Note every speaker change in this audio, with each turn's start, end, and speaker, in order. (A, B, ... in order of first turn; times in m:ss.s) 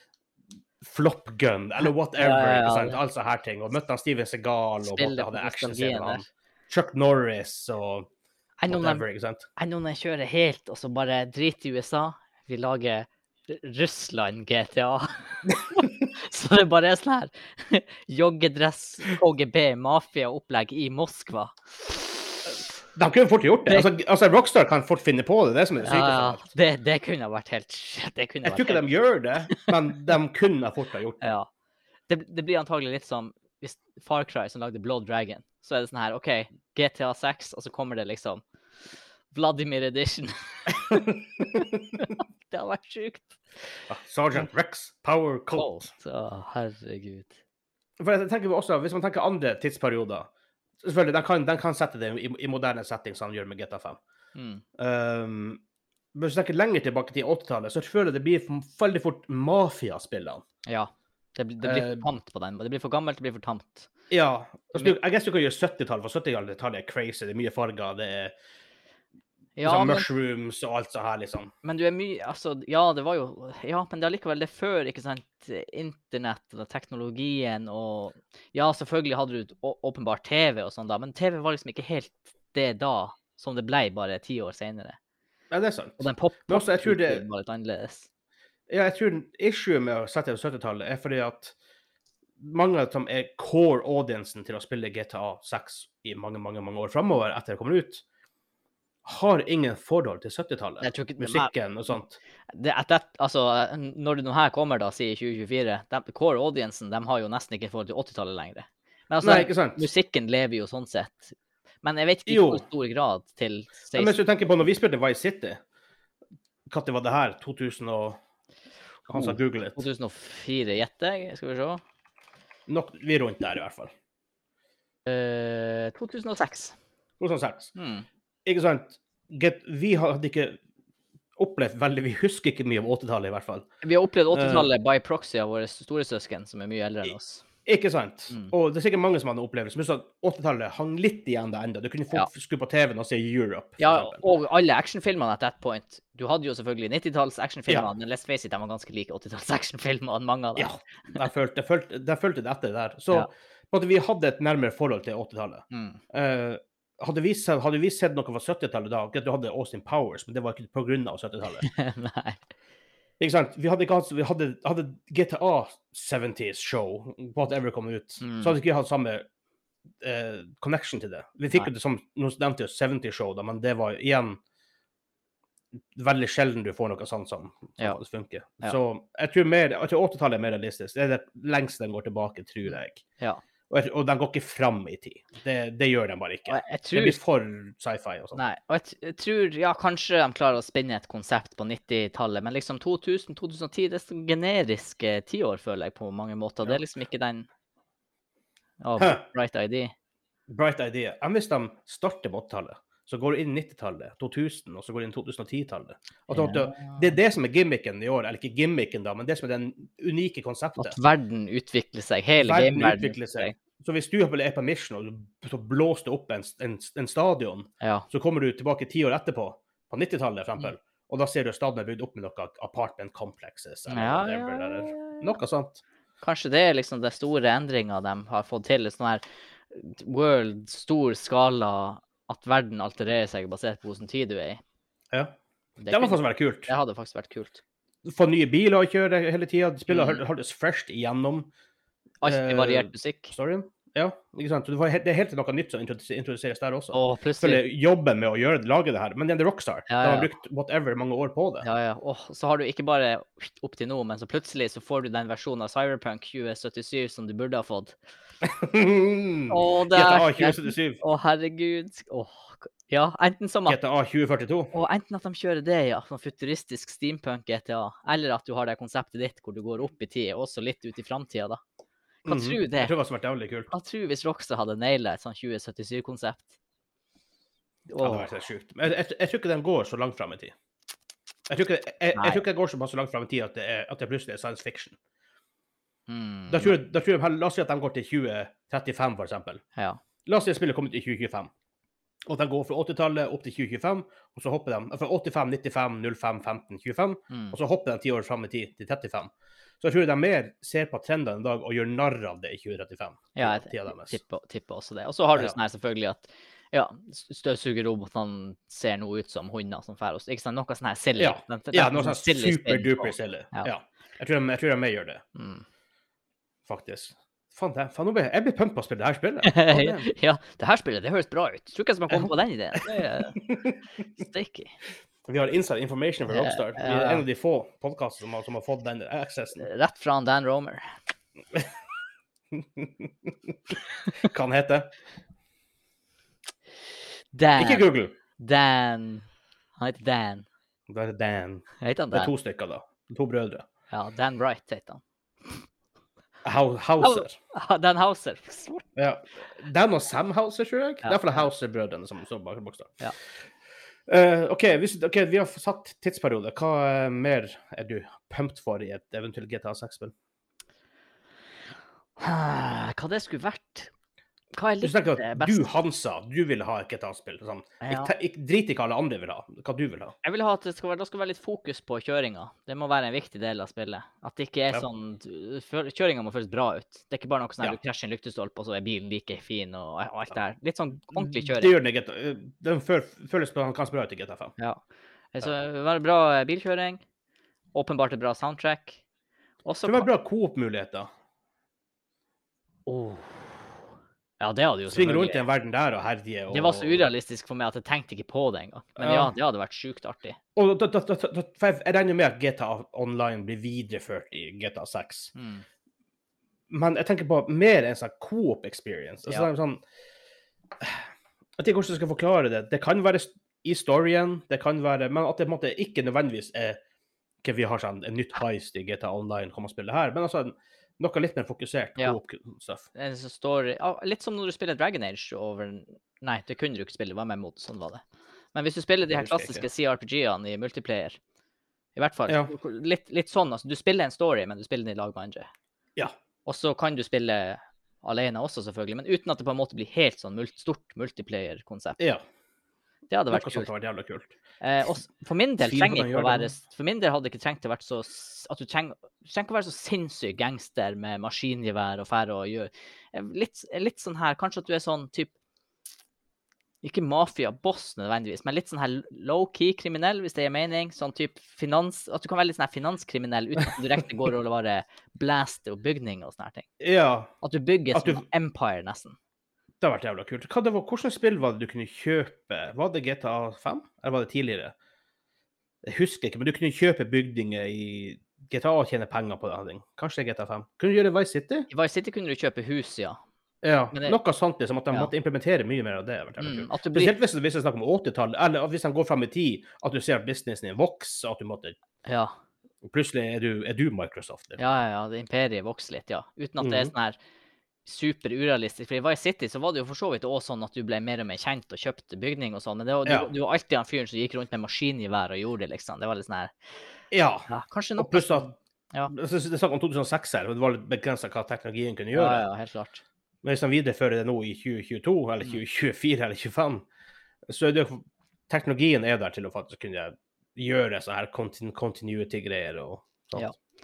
0:00.8-0:08.1 A
0:02.2-0:03.0 B
0:04.8-0:06.2 B
0:08.6-0:09.0 B
0:08.7-0:09.5 A
0:09.6-0:22.3 B
0:22.9-0:26.4 A
0:25.8-0:28.8 B
0:28.4-0:31.2 A
0:31.2-0:31.5 B
0:32.1-0:38.4 B
0:39.3-0:43.4 B
0:40.9-0:41.8 A
0:43.9-0:45.9 A
0:45.6-0:47.4 B
0:48.0-0:50.3 A
0:50.8-0:54.0 A
0:54.4-0:54.6 B
0:54.8-0:55.6 A
0:56.2-1:00.4 A
1:00.7-1:03.9 B
1:01.6-1:02.1 A
1:04.1-1:08.3 A
1:09.6-1:10.1 B
1:09.6-1:11.5 A
1:11.6-1:25.0 B
1:25.5-1:27.2 A
1:26.0-1:28.1 B
1:28.7-1:31.6 A
1:32.4-1:38.0 A
1:39.0-1:42.2 A
1:40.8-1:41.5 B
1:42.5-1:54.2 B
1:49.2-1:49.9 A
1:52.3-1:52.6 A
1:53.9-1:55.6 A
1:56.7-1:58.2 A
1:59.1-1:59.8 A
1:59.1-2:01.8 B
2:02.7-2:03.9 A
2:05.1-2:06.8 B
2:07.2-2:07.7 A
2:07.8-2:08.1 B
2:08.5-2:10.6 A
2:11.4-2:13.7 A
2:13.8-2:17.4 B
2:14.3-2:14.7 A
2:17.7-2:24.2 A
2:23.8-2:30.7 B
2:30.6-2:41.7 A
2:35.7-2:36.0 B
2:41.6-2:42.4 B
2:43.2-2:49.3 A
2:48.2-2:48.6 B
2:50.0-2:54.4 A
2:56.0-3:03.0 A
3:02.7-3:03.4 B
3:03.7-3:08.4 A
3:06.5-3:07.2 B
3:08.4-3:17.5 B
3:18.8-3:19.9 B
3:19.0-3:19.2 A
3:20.5-3:31.0 A
3:26.3-3:27.1 B
3:30.8-3:33.5 B
3:32.4-3:45.8 A
3:37.8-3:38.1 B
3:43.9-3:45.3 B
3:46.2-3:54.6 B
3:55.8-3:57.6 B
3:55.9-3:56.7 A
3:58.0-4:01.5 A
3:59.9-4:00.2 B
4:02.2-4:03.3 B
4:02.2-4:11.7 A
4:06.9-4:07.6 B
4:09.9-4:10.3 B
4:11.6-4:18.0 B
4:18.4-4:21.0 A
4:19.5-4:23.8 B
4:23.7-4:24.7 A
4:24.7-4:31.6 B
4:32.3-4:32.9 B
4:32.3-4:33.7 A
4:33.7-4:36.6 B
4:37.9-4:38.3 B
4:38.0-4:40.5 A
4:41.5-4:45.0 A
4:42.2-4:42.4 B
4:46.1-4:46.8 B
4:46.5-4:49.6 A
4:49.8-4:50.0 B
4:50.2-4:51.5 A
4:52.3-5:04.2 A
4:57.3-4:57.6 B
5:03.4-5:13.7 B
5:11.2-5:15.2 A
5:15.4-5:15.6 B
5:16.7-5:20.1 A
5:19.4-5:23.4 B
5:23.3-5:23.8 A
5:24.2-5:24.8 B
5:25.3-5:29.7 A
5:26.3-5:27.2 B
5:29.6-5:30.9 B
5:32.6-5:33.5 A
5:34.1-5:34.9 A
5:37.3-5:39.3 B
5:37.6-5:38.2 A
5:39.8-5:40.5 B
5:40.9-5:43.7 A
5:41.8-5:42.3 B
5:43.9-5:45.6 B
5:46.4-5:47.4 A
5:47.0-5:48.8 B
5:49.0-5:53.0 A
5:51.0-5:51.5 B
5:54.1-6:00.1 A
6:02.2-6:03.9 B
6:04.5-6:05.7 B
6:04.8-6:10.2 A
6:07.8-6:08.1 B
6:10.2-6:21.7 B
6:21.1-6:24.6 A
6:25.3-6:27.0 B
6:27.7-6:29.0 B
6:29.6-6:30.1 B
6:29.8-6:31.1 A
6:32.9-6:33.6 B
6:34.4-6:35.4 B
6:34.9-6:37.1 A
6:36.5-6:40.4 B
6:39.0-6:39.3 A
6:40.6-6:45.3 A
6:45.4-6:45.6 B
6:46.7-6:49.8 A
6:51.6-6:56.8 A
6:57.4-7:02.9 A
7:03.0-7:08.0 B
7:08.5-7:11.2 B
7:09.1-7:09.6 A
7:12.0-7:15.5 B
7:12.3-7:12.5 A
7:16.5-7:22.0 B
7:23.1-7:23.7 B
7:23.3-7:24.4 A
7:24.6-7:35.3 B
7:25.6-7:26.5 A
7:36.8-7:46.7 B
7:46.8-7:47.3 A
7:47.4-7:49.2 B
7:47.9-7:48.2 A
7:49.8-7:54.7 A
7:55.8-8:01.7 A
8:01.7-8:03.2 B
8:03.6-8:11.8 A
8:06.4-8:07.2 B
8:12.0-8:12.4 B
8:12.8-8:14.6 A
8:14.6-8:17.2 B
8:16.6-8:16.9 A
8:17.8-8:26.5 B
8:23.1-8:23.3 A
8:27.1-8:28.6 A
8:27.5-8:29.1 B
8:29.1-8:32.4 A
8:32.1-8:33.0 B
8:33.4-8:36.9 A
8:37.5-8:43.5 A